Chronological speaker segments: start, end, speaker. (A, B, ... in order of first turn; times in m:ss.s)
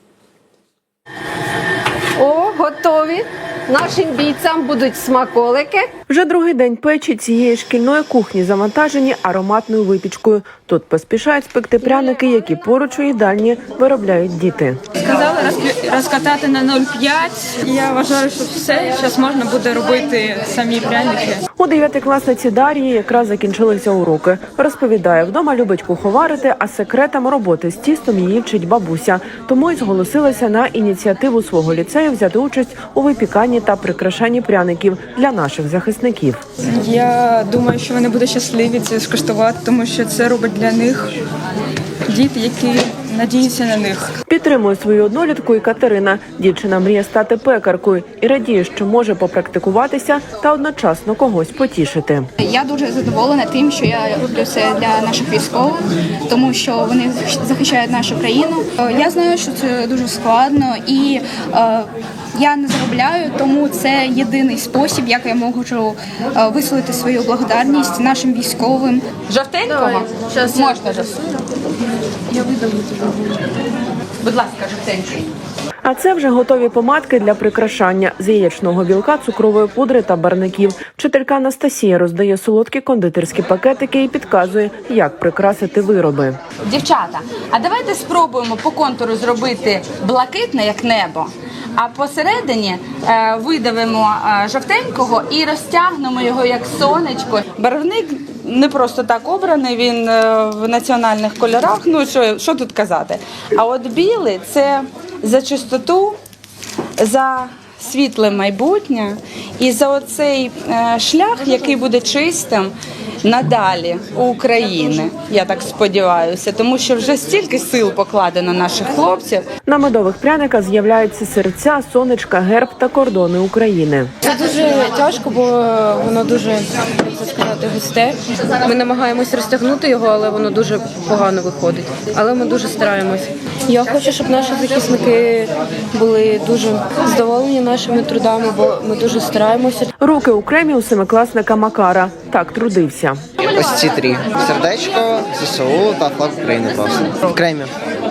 0:02.2-0:05.9 A
0:06.1-0:14.8 B
0:15.0-0:21.4 C
0:21.6-0:36.4 B
0:36.6-0:41.1 C
0:42.1-0:44.1 C
0:44.3-0:52.3 B
0:52.4-1:09.0 D
1:09.3-1:11.3 E
1:14.2-1:15.2 E
1:15.8-1:26.4 B
1:26.7-1:46.2 E
1:47.0-1:52.7 E
1:53.2-1:59.4 E
1:59.6-2:04.1 B
2:04.2-2:19.9 F
2:20.0-2:23.2 B
2:23.4-2:27.7 G